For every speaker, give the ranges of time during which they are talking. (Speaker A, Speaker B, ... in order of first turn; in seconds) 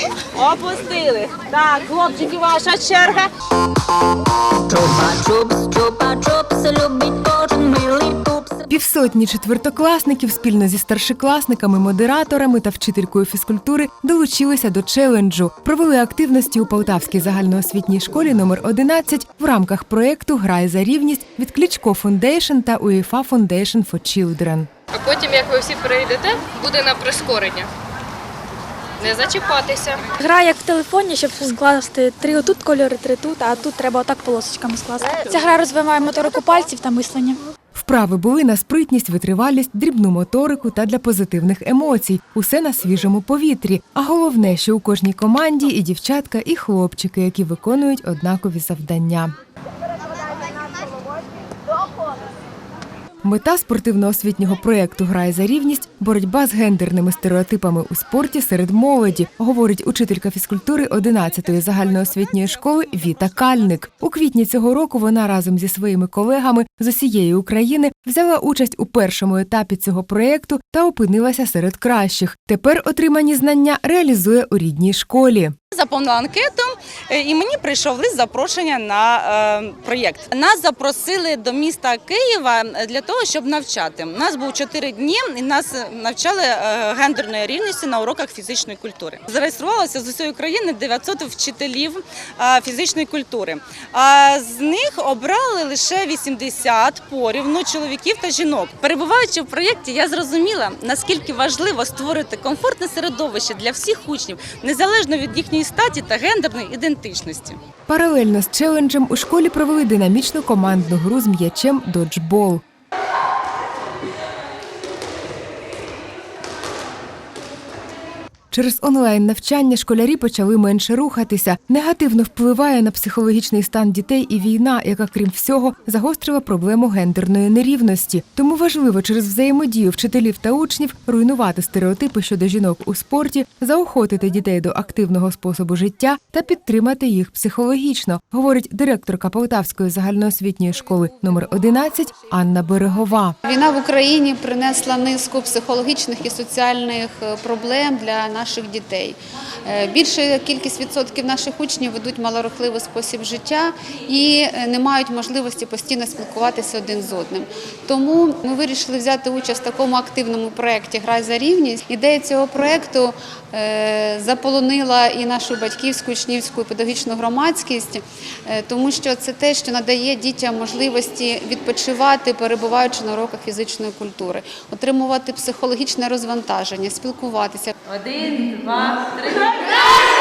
Speaker A: 0.3-3.3, 75.7-107.6, 177.9-179.5
Speaker B: 4.7-8.6
Speaker C: 8.7-24.7, 37.7-49.3, 53.2-75.5, 107.9-112.6, 118.5-143.3
Speaker D: 24.9-27.7, 29.0-30.0
Speaker E: 30.2-37.3
Speaker F: 143.4-177.7